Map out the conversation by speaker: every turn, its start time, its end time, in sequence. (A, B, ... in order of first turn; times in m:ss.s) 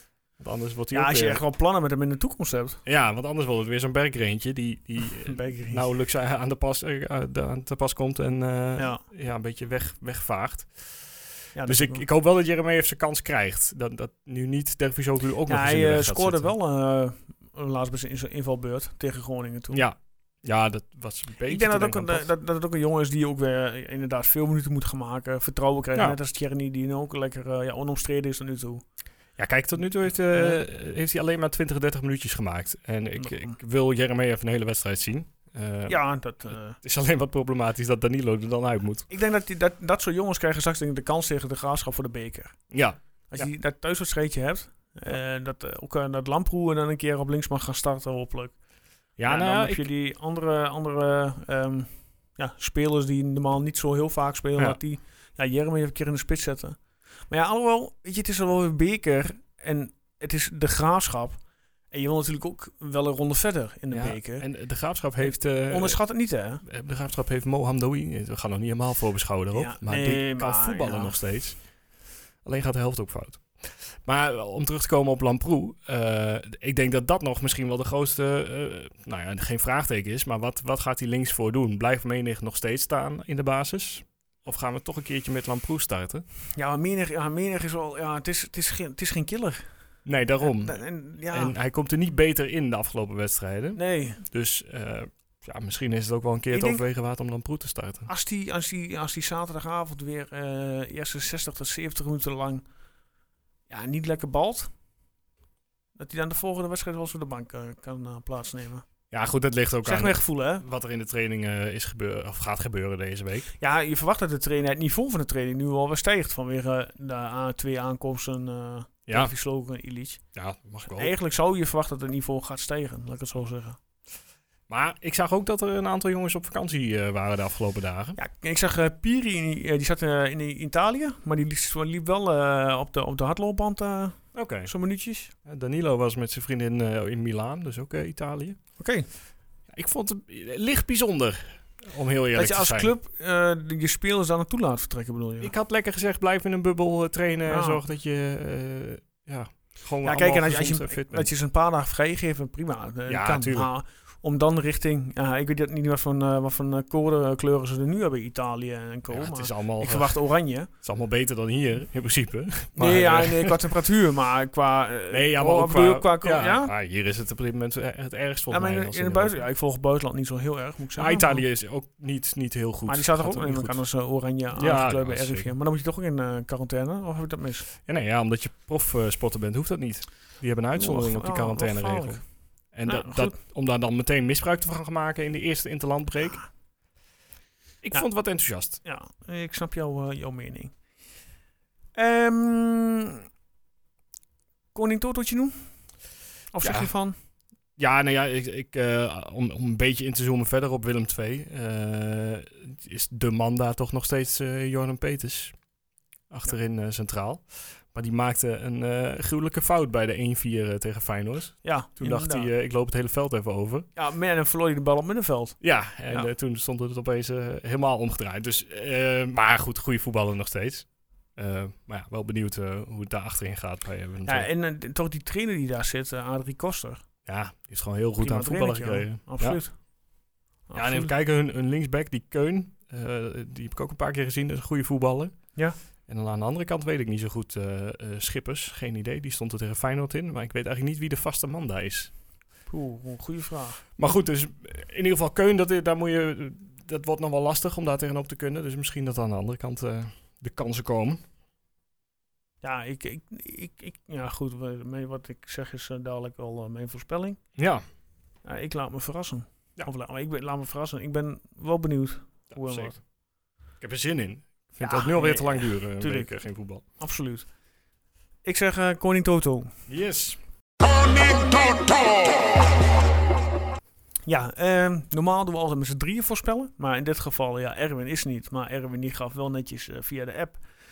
0:00.4-0:01.4 A
0:00.9-0:02.8 B
0:02.8-0:16.5 A
0:05.2-0:05.9 B
0:08.8-0:09.0 B
0:11.6-0:12.0 B
0:15.5-0:19.8 B
0:19.7-0:22.3 A
0:21.4-0:28.8 B
0:29.4-0:39.1 A
0:30.3-0:30.6 B
0:33.2-0:33.6 B
0:35.9-0:36.8 B
0:39.1-0:42.6 B
0:42.7-0:43.5 A
0:43.3-0:48.6 B
0:49.2-0:49.9 A
0:49.2-1:04.5 B
1:03.9-1:06.0 A
1:05.2-1:06.6 B
1:06.6-1:11.7 A
1:09.5-1:11.2 B
1:12.4-1:26.2 A
1:26.6-1:29.7 B
1:30.0-1:38.1 A
1:30.4-1:31.6 B
1:33.8-1:34.2 B
1:36.5-1:36.8 B
1:38.1-1:42.6 B
1:43.7-1:44.7 B
1:46.0-1:48.8 B
1:49.1-1:53.5 A
1:49.8-1:50.6 B
1:53.6-2:00.2 B
1:59.1-1:59.3 A
2:00.3-2:01.1 A
2:00.8-2:03.8 B
2:04.7-2:08.2 A
2:08.2-2:15.3 B
2:14.3-2:14.7 A
2:15.4-2:18.6 A
2:18.8-2:19.1 B
2:19.7-2:22.9 A
2:22.4-2:25.5 B
2:25.4-2:31.3 A
2:27.5-2:27.8 B
2:30.0-2:40.7 B
2:33.1-2:33.7 A
2:39.1-2:43.7 A
2:42.8-2:46.7 B
2:45.1-2:49.4 A
2:48.5-2:51.4 B
2:51.0-2:53.8 A
2:52.9-2:57.7 B
2:54.6-2:55.5 A
2:57.8-3:06.5 A
3:00.8-3:02.3 B
3:02.9-3:03.4 B
3:07.8-3:08.8 A
3:08.8-3:10.7 B
3:12.0-3:13.2 B
3:14.7-3:15.7 B
3:16.5-3:17.2 B
3:16.6-3:16.9 A
3:17.8-3:25.6 A
3:26.3-3:33.9 A
3:31.6-3:32.5 B
3:34.0-3:36.3 B
3:35.6-3:44.5 A
3:44.2-3:47.0 B
3:47.3-3:49.6 A
3:48.2-3:49.8 B
3:50.7-3:51.1 B
3:50.7-4:02.1 A
4:02.7-4:03.8 B
4:04.0-4:11.2 A
4:12.6-4:17.4 B
4:17.6-4:17.8 A
4:18.4-4:23.0 B
4:22.5-4:23.0 A
4:23.8-4:26.8 A
4:24.8-4:26.4 B
4:27.0-4:27.5 B
4:28.4-4:29.7 B
4:29.9-4:30.4 A
4:31.2-4:32.0 A
4:34.3-4:40.7 B